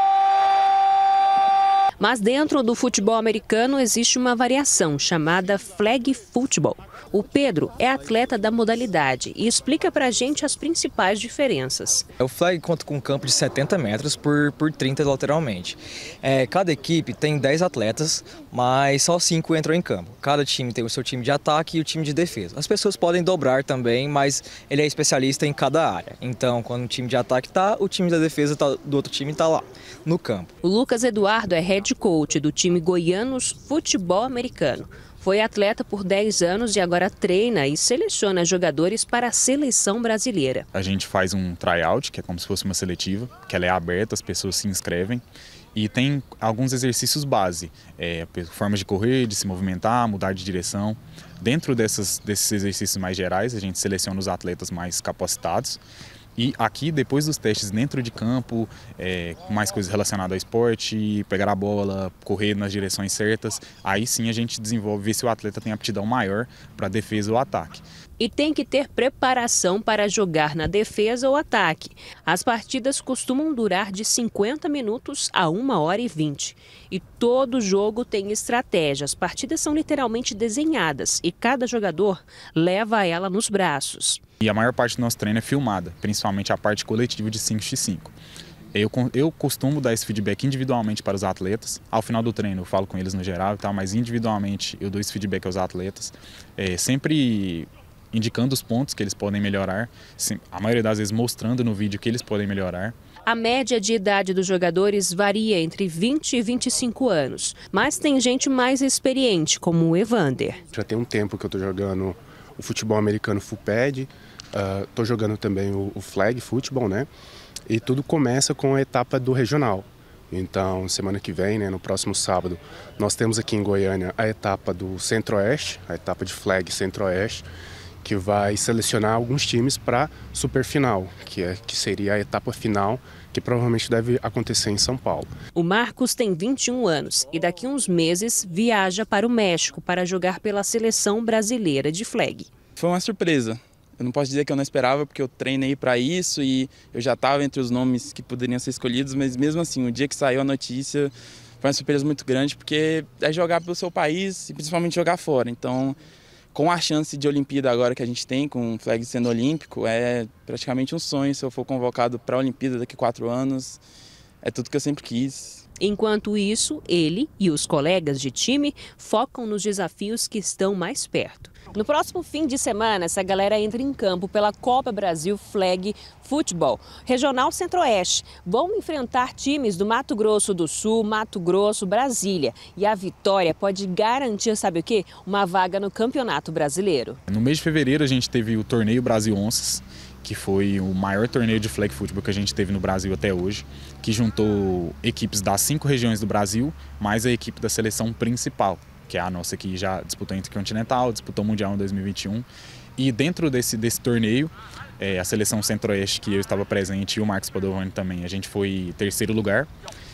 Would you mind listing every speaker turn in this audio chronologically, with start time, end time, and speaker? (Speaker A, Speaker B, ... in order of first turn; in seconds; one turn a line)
Speaker A: 2.0-12.1
Speaker B: 12.2-30.5
Speaker A: 30.6-40.7
Speaker C: 40.7-45.2
Speaker C: 45.8-55.8
Speaker C: 56.4-67.8
Speaker A: 68.2-84.2
Speaker C: 84.4-88.1
Speaker C: 88.7-103.0
Speaker A: 103.3-110.6
Speaker D: 110.7-117.1
Speaker D: 117.7-127.5
Speaker D: 128.0-135.3
Speaker A: 135.5-142.5
Speaker E: 142.8-156.0
Speaker E: 156.5-163.8
Speaker E: 164.4-165.6
Speaker A: 165.8-187.2
Speaker C: 187.3-209.7